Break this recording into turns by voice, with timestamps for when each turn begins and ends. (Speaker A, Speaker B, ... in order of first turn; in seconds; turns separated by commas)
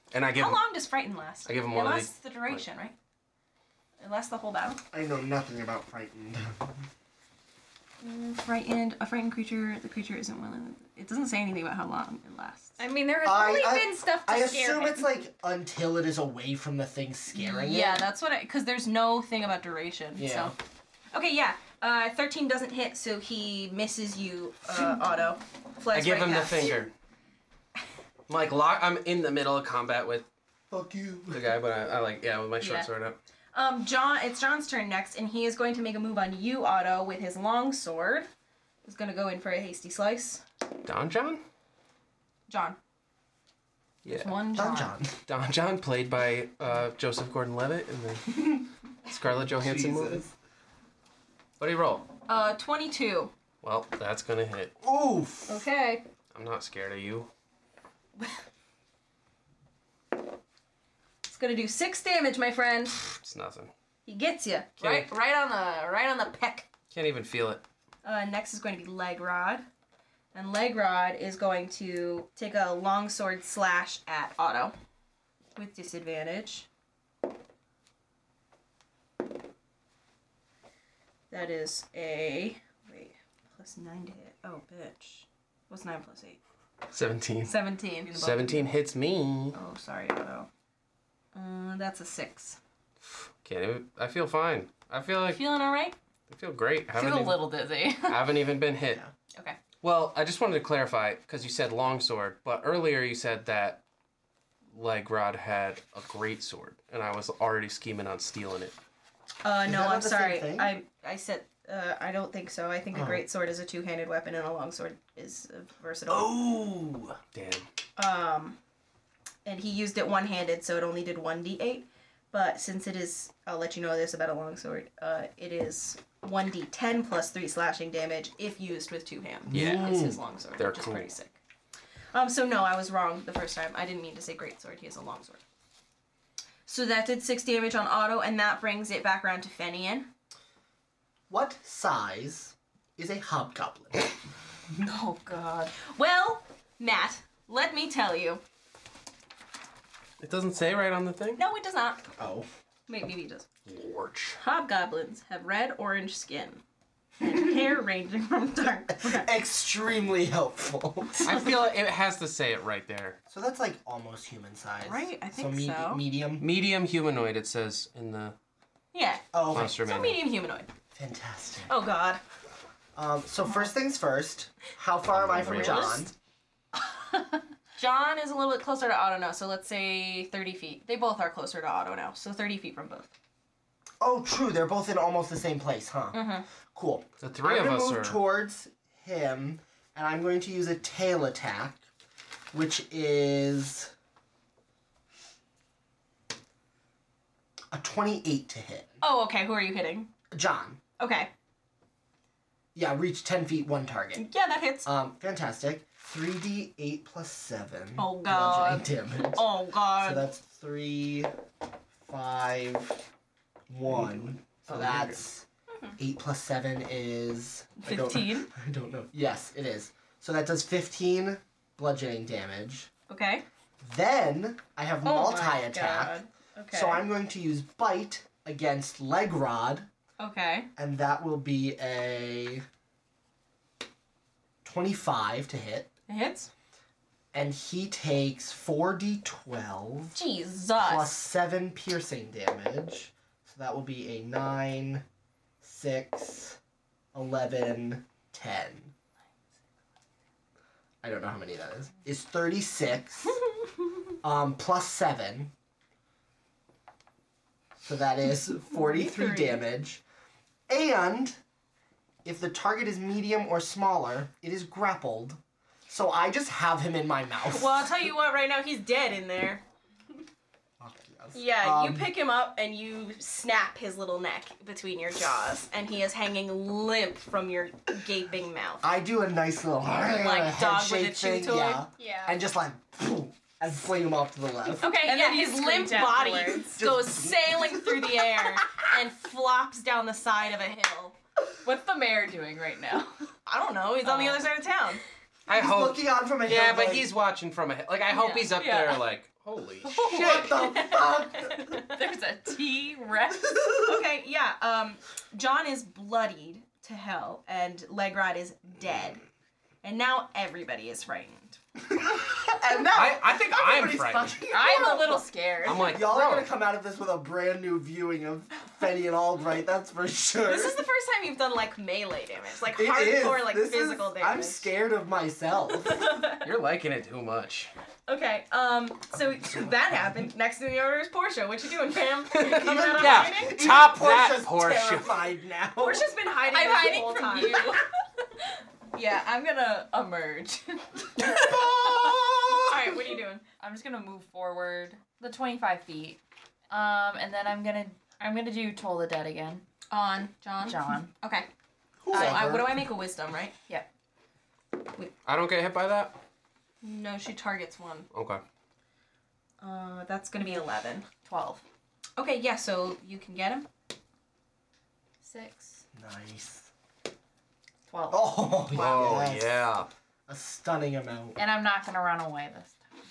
Speaker A: 0.1-0.6, Speaker B: 0.3-3.0, Speaker A: 1.4-2.6, Speaker B: 4.0-4.8, Speaker C: 4.9-6.8, Speaker B: 8.0-12.8, Speaker D: 12.8-15.1, Speaker C: 13.2-18.1, Speaker B: 17.3-20.6, Speaker C: 20.2-20.6, Speaker B: 21.1-26.9, Speaker A: 25.9-26.9, Speaker A: 28.3-30.3, Speaker C: 30.7-31.5, Speaker A: 31.3-33.2, Speaker B: 32.6-32.9, Speaker B: 33.5-38.3, Speaker B: 38.8-40.4, Speaker A: 40.8-41.4, Speaker B: 42.5-42.8, Speaker A: 44.0-44.5, Speaker B: 44.1-45.0, Speaker C: 44.5-45.2, Speaker A: 45.3-50.2, Speaker C: 49.6-50.3, Speaker A: 51.6-52.1, Speaker B: 52.3-53.3, Speaker A: 53.6-54.8, Speaker C: 54.8-55.6, Speaker B: 55.5-56.0, Speaker A: 56.3-57.3, Speaker B: 61.2-63.0, Speaker A: 63.1-63.7, Speaker B: 64.1-66.7, Speaker A: 64.8-65.1, Speaker A: 66.9-67.6, Speaker B: 68.0-69.7, Speaker B: 70.3-74.7, Speaker B: 75.6-76.7, Speaker B: 81.3-86.4, Speaker A: 86.9-89.6, Speaker B: 87.4-88.7, Speaker B: 89.5-90.5, Speaker B: 91.3-92.6, Speaker A: 93.0-95.5, Speaker B: 95.2-96.0, Speaker A: 96.3-99.0, Speaker E: 96.9-98.3, Speaker A: 99.8-103.8, Speaker A: 104.7-108.8, Speaker B: 109.4-116.5, Speaker C: 109.6-110.7, Speaker C: 112.9-113.2, Speaker A: 116.1-117.7, Speaker B: 118.0-118.6, Speaker B: 119.5-131.4, Speaker C: 129.5-130.2, Speaker A: 129.5-131.1, Speaker B: 132.1-135.4, Speaker B: 136.7-140.1, Speaker C: 141.3-144.1, Speaker E: 144.8-145.7, Speaker B: 145.8-148.4, Speaker A: 150.2-151.4, Speaker B: 151.4-152.1, Speaker C: 152.2-152.5, Speaker B: 152.9-153.5, Speaker A: 153.7-154.4, Speaker B: 154.4-156.6, Speaker B: 157.2-159.3, Speaker C: 158.9-161.6, Speaker A: 161.2-163.2, Speaker C: 163.3-166.5, Speaker B: 164.8-166.0, Speaker A: 166.4-168.4, Speaker B: 168.9-170.7, Speaker C: 169.3-169.8, Speaker A: 169.5-170.2, Speaker C: 170.9-171.8, Speaker B: 171.7-172.2, Speaker C: 172.9-176.1, Speaker A: 175.1-176.0, Speaker B: 175.3-176.1, Speaker B: 177.8-183.1, Speaker C: 184.0-191.8, Speaker B: 186.1-186.4, Speaker A: 187.2-188.2, Speaker C: 192.5-193.9, Speaker C: 197.7-199.0, Speaker B: 199.0-200.1, Speaker C: 200.3-200.8, Speaker B: 201.0-201.3, Speaker C: 202.8-204.3, Speaker B: 204.2-204.9, Speaker C: 204.8-211.3, Speaker B: 208.0-210.3, Speaker C: 212.1-213.1, Speaker C: 213.7-215.4, Speaker A: 213.9-215.2, Speaker C: 216.0-222.9, Speaker B: 217.8-218.5, Speaker B: 223.1-223.4, Speaker C: 223.8-226.2, Speaker B: 225.0-227.1, Speaker C: 226.7-229.9, Speaker B: 230.2-230.7, Speaker C: 230.8-232.6, Speaker C: 234.6-235.9, Speaker B: 236.1-236.5, Speaker C: 237.3-240.2, Speaker B: 240.1-241.2, Speaker C: 240.8-245.1, Speaker C: 245.6-246.6, Speaker C: 247.1-248.9, Speaker C: 251.0-253.4, Speaker C: 254.2-255.5, Speaker C: 257.8-260.0, Speaker B: 258.7-259.6, Speaker C: 260.7-261.4, Speaker C: 262.2-267.9, Speaker B: 267.4-269.6, Speaker C: 270.8-272.1, Speaker B: 271.3-278.9, Speaker C: 278.8-284.9, Speaker B: 279.9-281.9, Speaker D: 282.0-282.4, Speaker E: 284.8-286.8, Speaker B: 284.8-291.2, Speaker C: 286.8-288.8, Speaker E: 291.6-293.3, Speaker B: 293.5-295.0, Speaker E: 294.0-294.4, Speaker A: 295.5-300.2, Speaker C: 295.5-297.1, Speaker B: 298.1-298.5, Speaker E: 298.5-299.0, Speaker E: 299.8-303.6, Speaker C: 300.0-301.8, Speaker C: 303.4-304.0, Speaker B: 303.9-309.2, Speaker B: 309.8-311.6, Speaker C: 311.9-320.8, Speaker A: 312.9-314.4, Speaker E: 314.5-316.1, Speaker A: 315.6-316.5, Speaker B: 320.4-324.7, Speaker C: 322.7-326.1, Speaker B: 325.7-326.5, Speaker A: 326.4-327.7, Speaker B: 328.1-333.7, Speaker A: 332.3-335.3, Speaker C: 332.4-336.1, Speaker B: 335.8-337.8, Speaker E: 336.4-337.9, Speaker E: 338.9-342.7, Speaker C: 341.2-342.8, Speaker B: 342.7-343.4, Speaker E: 343.6-349.6, Speaker B: 349.9-351.5, Speaker E: 350.6-351.1, Speaker C: 352.0-352.9, Speaker B: 352.1-353.6, Speaker E: 352.2-352.5, Speaker A: 355.2-356.2, Speaker B: 356.8-358.1, Speaker A: 358.1-358.4, Speaker B: 359.6-361.1, Speaker E: 361.2-361.6, Speaker B: 362.2-363.7, Speaker E: 365.2-365.8, Speaker C: 365.9-366.7, Speaker E: 367.9-368.6, Speaker C: 368.1-369.7, Speaker A: 368.7-369.9, Speaker C: 370.3-371.4, Speaker E: 371.4-372.8